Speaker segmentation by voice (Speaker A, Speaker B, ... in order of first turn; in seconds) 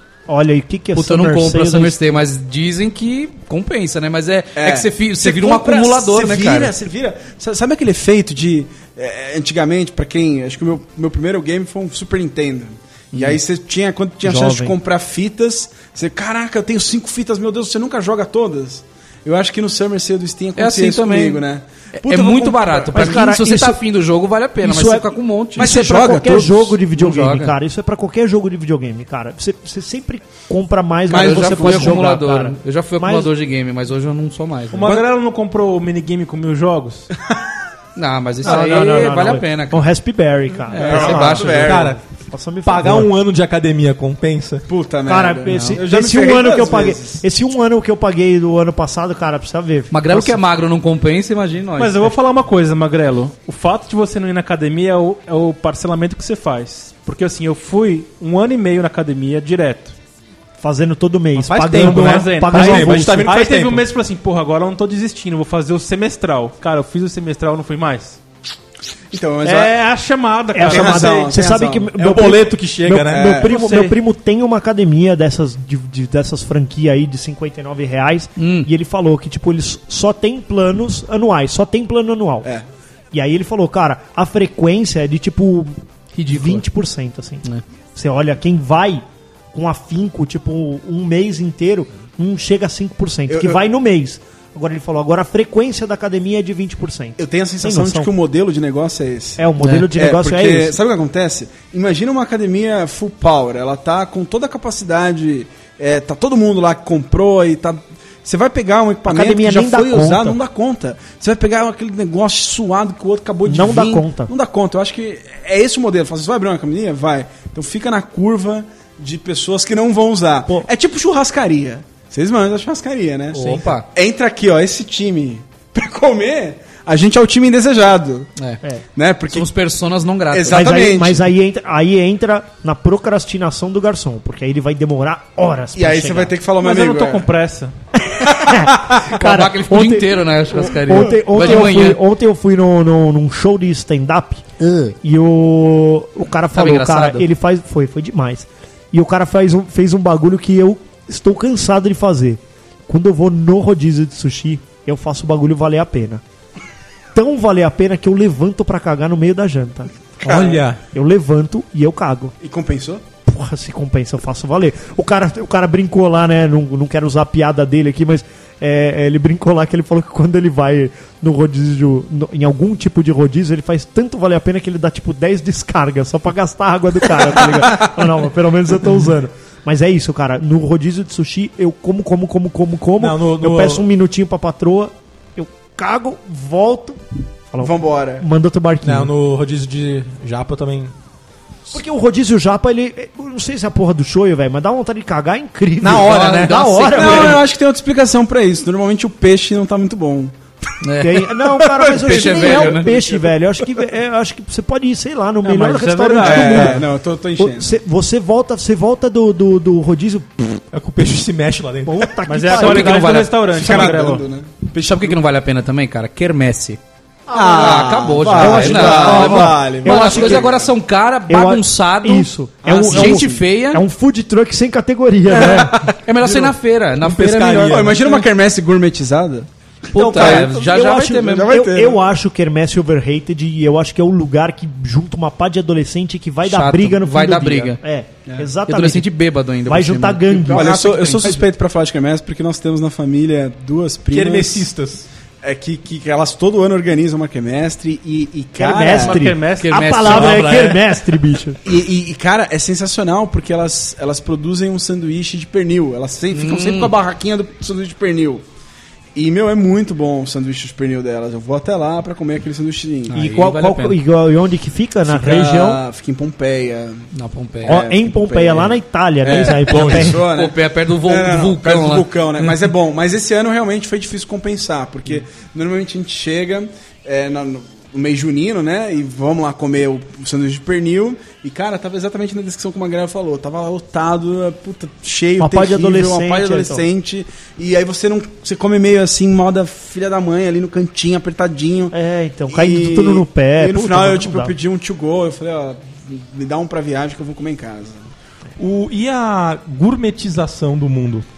Speaker A: 0.3-1.9, 14.2-14.8, 22.9-23.8, 24.6-33.3, 38.4-41.4, 42.3-43.1, 45.1-50.4, 60.6-63.3, 70.5-82.5, 83.1-98.1, 99.4-100.8, 109.1-110.4, 113.5-114.3, 130.5-136.3, 137.9-144.4, 145.0-156.2, 157.2-159.9, 160.9-162.3, 163.3-189.1, 191.7-197.4, 201.0-206.8, 207.4-210.6, 211.9-213.0, 218.3-220.4, 221.3-225.8, 229.9-239.1, 239.7-240.7, 248.6-251.6, 263.1-265.8, 267.7-270.2, 285.4-286.8, 291.9-294.5
Speaker B: 0.9-6.7, 13.1-13.4, 20.6-21.4, 22.0-25.7, 27.0-27.6, 31.1-35.1, 38.0-39.8, 40.7-41.9, 45.5-45.8, 49.9-52.1, 78.4-78.7, 86.2-86.6, 99.6-99.9, 123.3-123.9, 129.3-130.8, 139.1-142.0, 144.6-144.9, 146.5-147.3, 195.9-197.4, 200.8-201.3, 201.8-203.0, 212.3-213.4, 214.6-216.8, 217.3-223.8, 225.7-228.1, 229.9-231.5, 236.4-237.8, 238.7-241.4, 249.6-250.8, 256.3-256.9, 263.1-264.0, 267.1-267.8, 269.7-272.1
Speaker C: 4.6-23.2, 25.6-26.8, 31.1-32.0, 40.7-42.0, 44.7-47.2, 69.1-69.8, 70.7-71.9, 73.1-73.5, 93.3-93.6, 97.2-128.3, 129.0-129.5, 130.3-131.3, 135.8-137.3, 140.9-141.7, 160.2-160.7, 162.4-163.0, 187.6-188.2, 196.9-200.4, 201.6-203.3, 206.2-207.7, 213.5-214.6, 217.3-220.7, 222.7-223.5, 225.3-226.5, 227.7-229.5, 230.0-232.0, 240.5-244.7, 245.4-249.4, 251.6-258.4, 259.1-263.2, 265.1-267.1, 267.6-291.9, 292.5-298.1
Speaker D: 34.7-37.1, 51.8-60.0, 61.7-68.2, 69.4-71.3, 73.4-74.0, 136.6-137.7, 205.4-206.8, 212.3-214.3, 248.9-249.8
Speaker E: 40.8-42.0, 42.6-44.6, 61.4-63.8, 72.0-73.4, 123.3-123.7, 160.2-160.8, 183.0-183.9, 188.8-190.9, 195.8-197.1, 210.7-212.2, 227.0-228.2, 244.1-245.1, 250.1-250.7, 269.7-270.1, 298.6-301.3